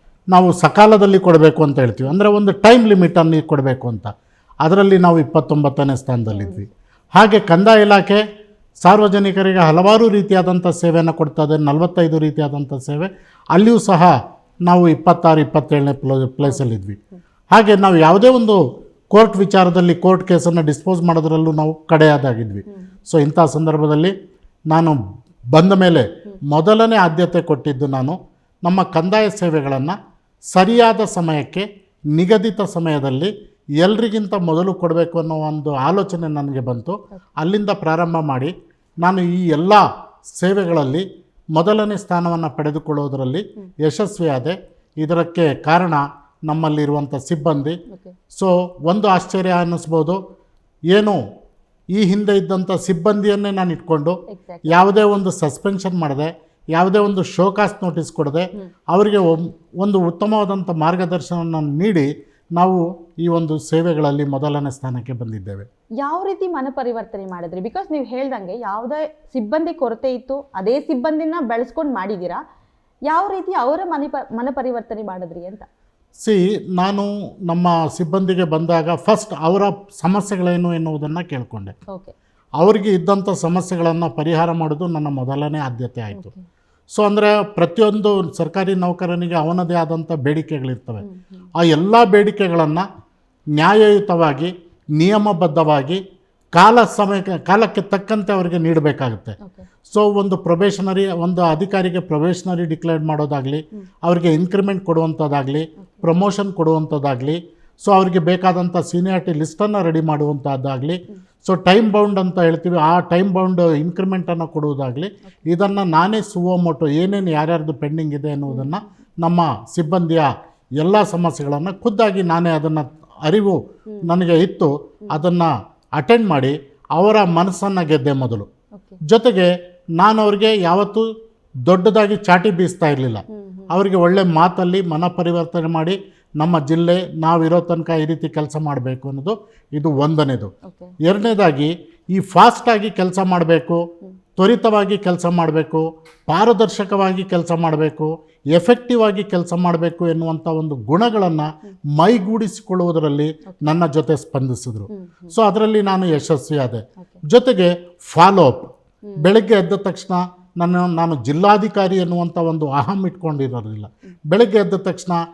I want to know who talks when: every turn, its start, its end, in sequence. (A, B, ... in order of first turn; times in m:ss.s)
0:00.3-0:04.1 A
0:04.6-0:08.2 A
0:06.3-0:06.6 B
0:08.8-0:17.0 A
0:17.5-0:18.6 A
0:19.1-0:24.1 A
0:24.7-0:25.0 A
0:25.5-0:30.0 A
0:30.5-0:47.8 A
0:48.3-0:50.2 A
0:50.9-0:51.2 A
0:51.9-1:05.7 A
0:54.3-0:54.8 B
1:06.0-1:12.4 B
1:13.1-1:15.7 B
1:16.2-1:21.8 A
1:22.6-1:26.3 A
1:26.9-1:31.1 A
1:31.0-1:31.4 B
1:31.6-1:32.8 A
1:33.6-1:36.0 A
1:36.6-2:08.5 A
1:58.5-1:58.8 B
2:09.0-2:11.1 A
2:11.7-2:20.5 A
2:13.3-2:13.7 B
2:20.7-2:21.0 B
2:21.0-2:23.8 A
2:24.4-2:45.2 A
2:34.9-2:35.3 B